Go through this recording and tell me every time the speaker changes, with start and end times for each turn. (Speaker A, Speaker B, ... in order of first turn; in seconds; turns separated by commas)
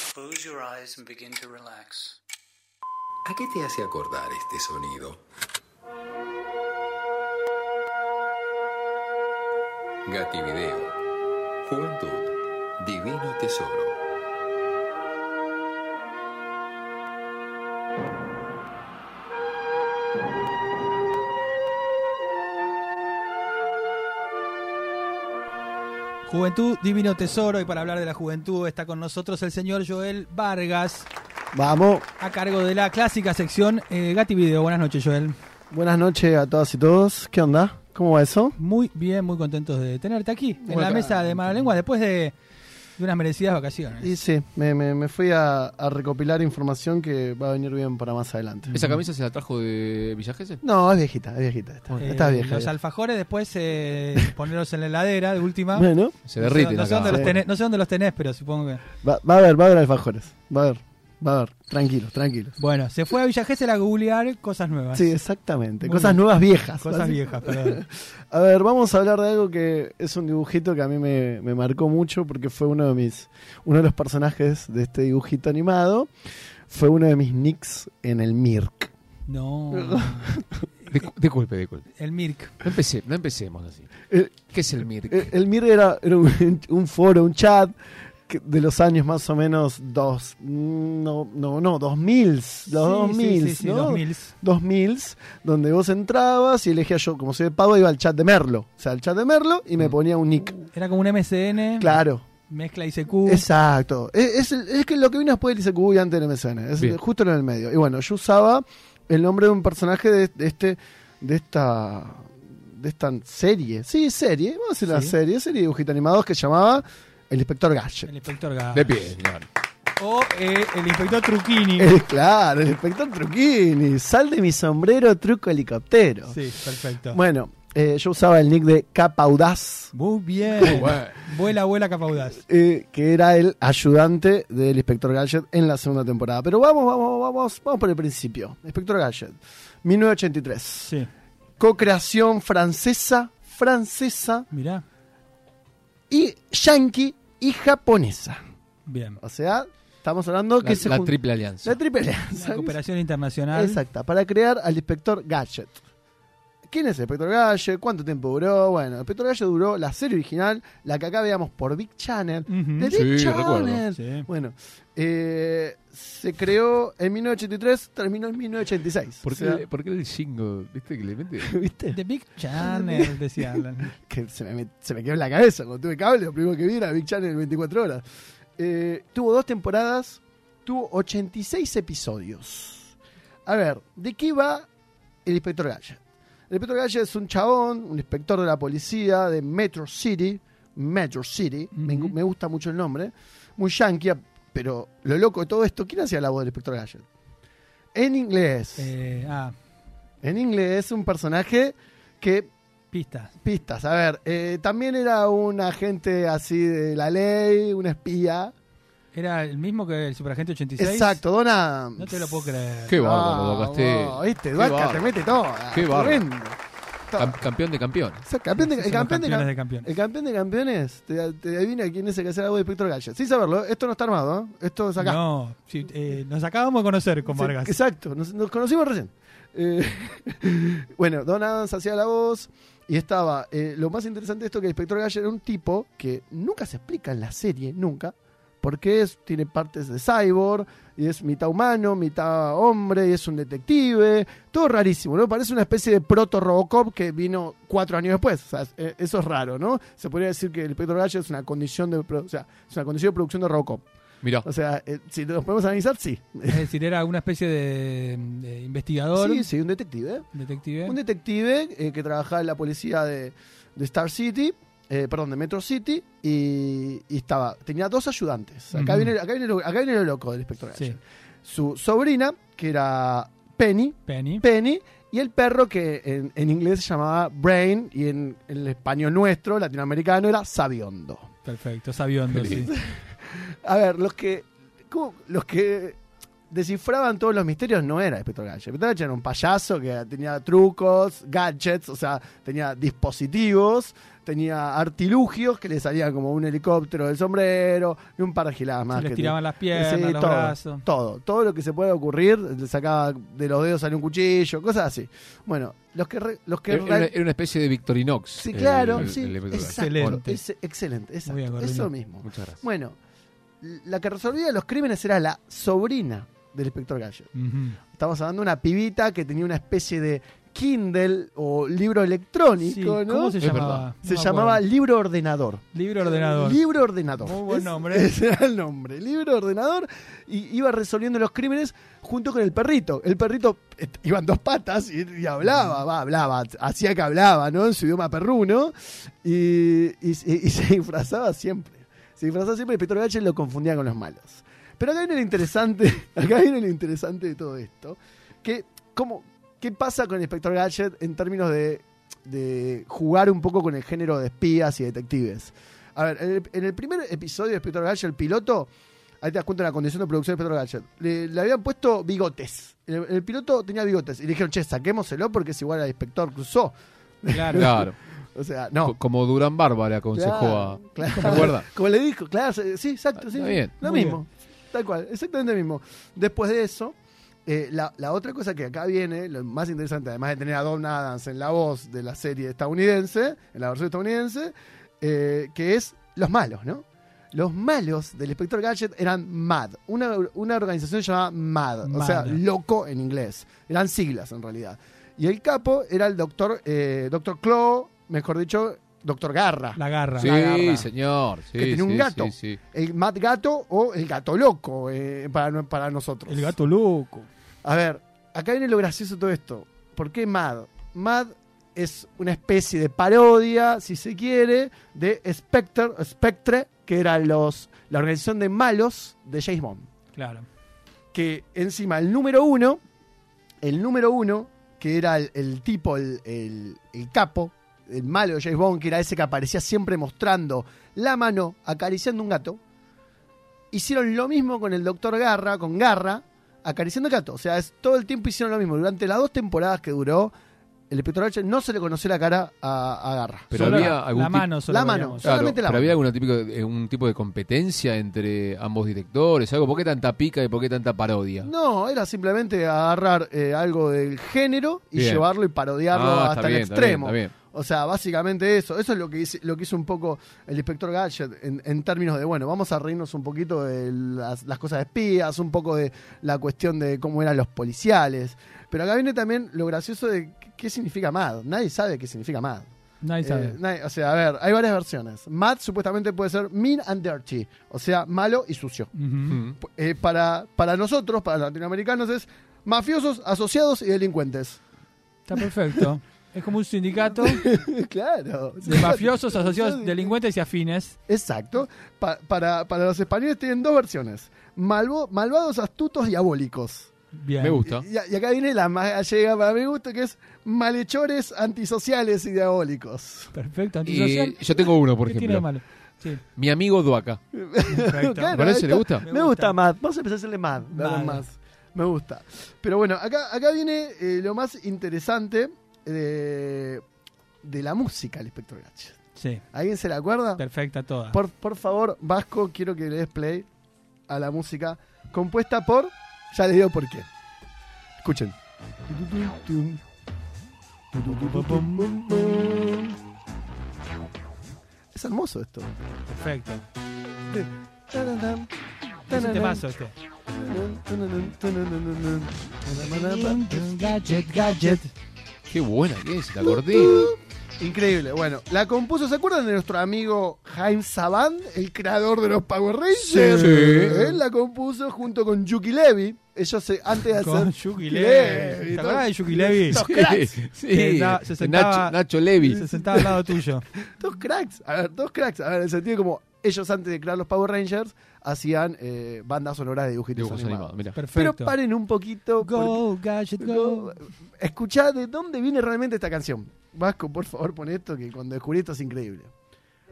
Speaker A: 0.1-2.2, Speaker B: 3.2-5.2, Speaker B: 10.1-10.9, Speaker B: 11.6-14.0, Speaker C: 26.2-31.1, Speaker D: 31.5-32.0, Speaker C: 32.2-35.3, Speaker D: 35.7-38.5, Speaker C: 38.6-42.3, Speaker D: 40.6-41.6, Speaker C: 43.0-44.1, Speaker D: 44.0-48.8, Speaker C: 48.7-49.0, Speaker E: 48.7-50.6, Speaker D: 50.6-52.7, Speaker C: 52.0-55.9, Speaker D: 55.7-56.2, Speaker E: 56.2-57.4, Speaker C: 56.4-58.8, Speaker D: 57.0-57.4, Speaker D: 59.0-62.5, Speaker C: 62.6-65.1, Speaker D: 64.9-76.1, Speaker C: 65.8-67.8, Speaker D: 76.7-78.9, Speaker C: 79.3-80.4, Speaker D: 79.7-80.7, Speaker E: 80.9-81.9, Speaker C: 81.9-82.5, Speaker E: 82.6-83.9, Speaker D: 84.1-84.4, Speaker E: 84.5-85.3, Speaker D: 85.0-87.7, Speaker D: 88.3-100.6, Speaker C: 92.7-94.3, Speaker C: 100.6-103.4, Speaker D: 101.8-102.2, Speaker D: 103.2-118.1, Speaker C: 114.9-115.1, Speaker C: 118.0-118.9, Speaker E: 118.7-119.5, Speaker C: 120.0-122.0, Speaker D: 121.8-126.4, Speaker C: 126.3-127.2, Speaker D: 127.1-129.9, Speaker C: 129.9-132.4, Speaker D: 130.6-130.9, Speaker E: 130.6-131.2, Speaker D: 132.3-140.9, Speaker C: 140.8-141.1, Speaker D: 141.6-144.4, Speaker C: 144.5-144.8, Speaker D: 146.1-148.4, Speaker C: 148.8-149.2, Speaker D: 149.2-152.8, Speaker E: 150.6-151.8, Speaker C: 152.3-153.8, Speaker D: 153.5-155.8, Speaker D: 156.7-169.6, Speaker C: 162.5-162.9, Speaker E: 162.9-163.8, Speaker C: 163.9-164.3, Speaker E: 169.2-171.5, Speaker D: 171.4-172.0, Speaker C: 171.9-173.9, Speaker D: 172.6-178.0, Speaker D: 178.6-182.9, Speaker D: 183.5-184.7, Speaker D: 185.2-197.0, Speaker C: 191.7-192.1, Speaker D: 197.9-198.9, Speaker C: 198.8-199.5, Speaker D: 200.2-202.5, Speaker C: 202.9-203.3, Speaker D: 203.4-208.5, Speaker C: 209.1-211.2, Speaker D: 210.8-216.6, Speaker C: 212.0-213.0, Speaker E: 212.9-216.3, Speaker D: 217.1-217.4, Speaker E: 217.2-218.2, Speaker D: 218.2-225.2, Speaker C: 218.6-219.9, Speaker C: 225.0-227.7, Speaker D: 227.2-253.8, Speaker D: 254.4-256.7, Speaker C: 256.5-259.5, Speaker D: 259.1-260.2, Speaker C: 260.3-261.0, Speaker D: 260.8-281.3, Speaker C: 268.7-269.1, Speaker C: 274.1-274.4, Speaker C: 281.4-282.7, Speaker D: 282.4-286.0, Speaker D: 286.5-307.2, Speaker C: 298.9-300.8, Speaker E: 306.7-310.2, Speaker D: 308.4-312.9, Speaker C: 309.7-310.4, Speaker C: 311.2-311.9, Speaker E: 312.2-312.6, Speaker D: 313.6-317.3, Speaker C: 317.3-317.8, Speaker D: 318.0-358.7, Speaker C: 322.6-324.6, Speaker E: 323.4-323.9, Speaker C: 325.7-326.6, Speaker C: 327.2-328.1, Speaker D: 359.2-368.9, Speaker C: 367.3-367.7, Speaker E: 367.5-368.0, Speaker E: 368.8-371.7, Speaker D: 370.1-376.9, Speaker C: 371.1-371.5, Speaker E: 373.2-373.8, Speaker C: 373.8-374.2, Speaker D: 377.4-400.6, Speaker C: 391.8-392.4, Speaker C: 399.7-400.9, Speaker E: 400.2-402.6, Speaker D: 401.5-406.5, Speaker C: 406.3-407.3, Speaker D: 407.6-419.9, Speaker C: 420.1-420.5, Speaker D: 421.1-422.8, Speaker D: 423.6-432.6, Speaker D: 433.7-440.3, Speaker D: 440.9-444.0, Speaker E: 443.5-444.5, Speaker C: 443.5-445.3, Speaker D: 444.7-446.0, Speaker E: 445.2-451.5, Speaker D: 451.4-472.7, Speaker E: 454.9-455.2, Speaker E: 455.9-457.3, Speaker C: 473.0-473.6, Speaker D: 473.2-478.9, Speaker C: 478.9-479.4, Speaker E: 479.3-479.6, Speaker D: 479.6-484.6, Speaker C: 485.2-487.4, Speaker D: 487.1-490.1, Speaker C: 488.6-491.0, Speaker D: 491.1-496.9, Speaker C: 497.1-497.6, Speaker E: 497.4-497.8, Speaker D: 497.6-503.3, Speaker C: 503.3-506.2, Speaker E: 503.9-505.5, Speaker E: 506.4-507.2, Speaker D: 507.3-516.8, Speaker C: 507.7-508.4, Speaker E: 508.3-509.0, Speaker C: 509.0-509.6, Speaker C: 510.7-511.2, Speaker D: 517.4-519.0, Speaker C: 519.1-519.4, Speaker D: 519.5-520.4, Speaker C: 520.4-521.2, Speaker D: 521.1-523.5, Speaker D: 524.1-527.0, Speaker D: 528.0-528.3, Speaker D: 528.9-529.8, Speaker D: 530.9-533.0, Speaker C: 531.0-532.0, Speaker D: 534.9-535.7, Speaker C: 536.1-536.6, Speaker D: 537.3-538.5, Speaker D: 539.0-539.6, Speaker C: 539.1-539.9, Speaker D: 540.4-544.8, Speaker C: 542.8-544.9, Speaker E: 545.5-547.1, Speaker D: 546.4-560.4, Speaker E: 553.2-554.1, Speaker C: 553.2-553.6, Speaker C: 557.1-559.8, Speaker E: 559.7-562.6, Speaker C: 560.7-563.6, Speaker D: 562.4-579.3, Speaker E: 570.1-571.0, Speaker C: 571.0-571.6, Speaker C: 572.4-573.9